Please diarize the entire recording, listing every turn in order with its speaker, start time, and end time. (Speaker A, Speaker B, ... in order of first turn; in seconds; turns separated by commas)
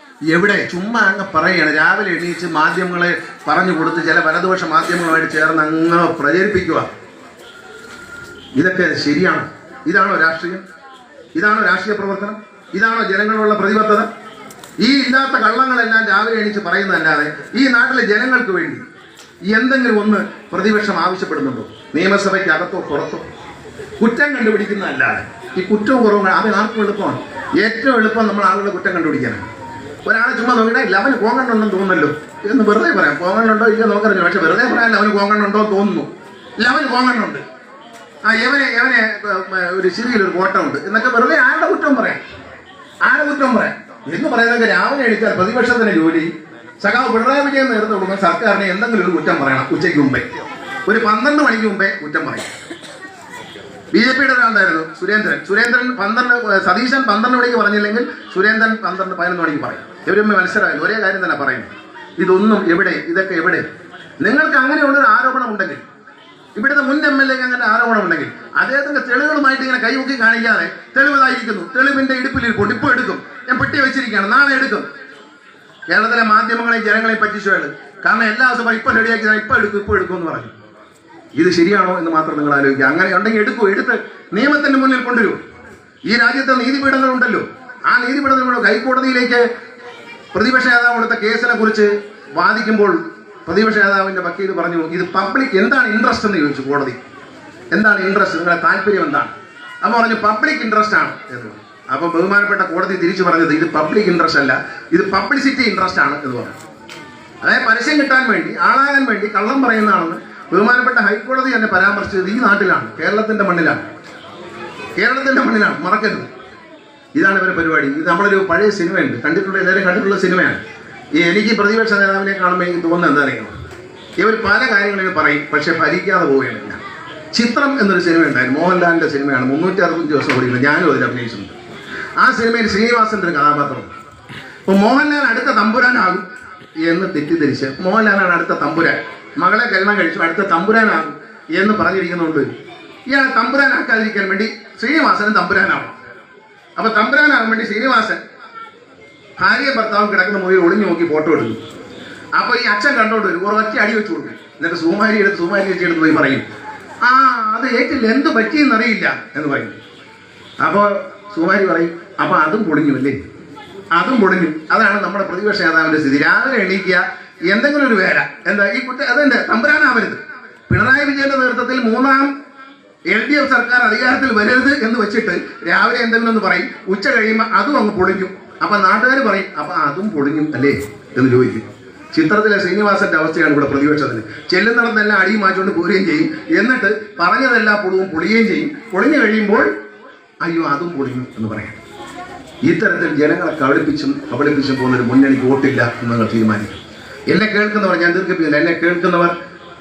Speaker A: 0.2-6.9, Speaker A: 8.6-10.6, Speaker A: 11.3-14.1, Speaker A: 14.8-18.8, Speaker A: 19.5-23.3, Speaker A: 24.0-29.4, Speaker A: 30.0-37.4, Speaker A: 38.2-42.2, Speaker A: 43.0-50.3, Speaker A: 50.9-52.5, Speaker A: 53.9-63.6, Speaker A: 64.2-65.8, Speaker A: 66.5-74.9, Speaker A: 75.9-80.5, Speaker A: 81.4-85.4, Speaker A: 86.1-89.4, Speaker A: 90.3-97.0, Speaker A: 97.7-106.6, Speaker A: 107.4-113.8, Speaker A: 115.0-116.3, Speaker A: 117.1-120.6, Speaker A: 121.1-123.5, Speaker A: 124.2-126.8, Speaker A: 127.3-131.6, Speaker A: 132.2-133.9, Speaker A: 134.7-136.2, Speaker A: 136.8-142.5, Speaker A: 143.1-146.0, Speaker A: 146.8-148.2, Speaker A: 149.4-151.6, Speaker A: 152.3-156.4, Speaker A: 157.0-159.8, Speaker A: 160.6-163.2, Speaker A: 163.9-172.3, Speaker A: 173.1-189.7, Speaker A: 190.4-191.8, Speaker A: 192.6-199.3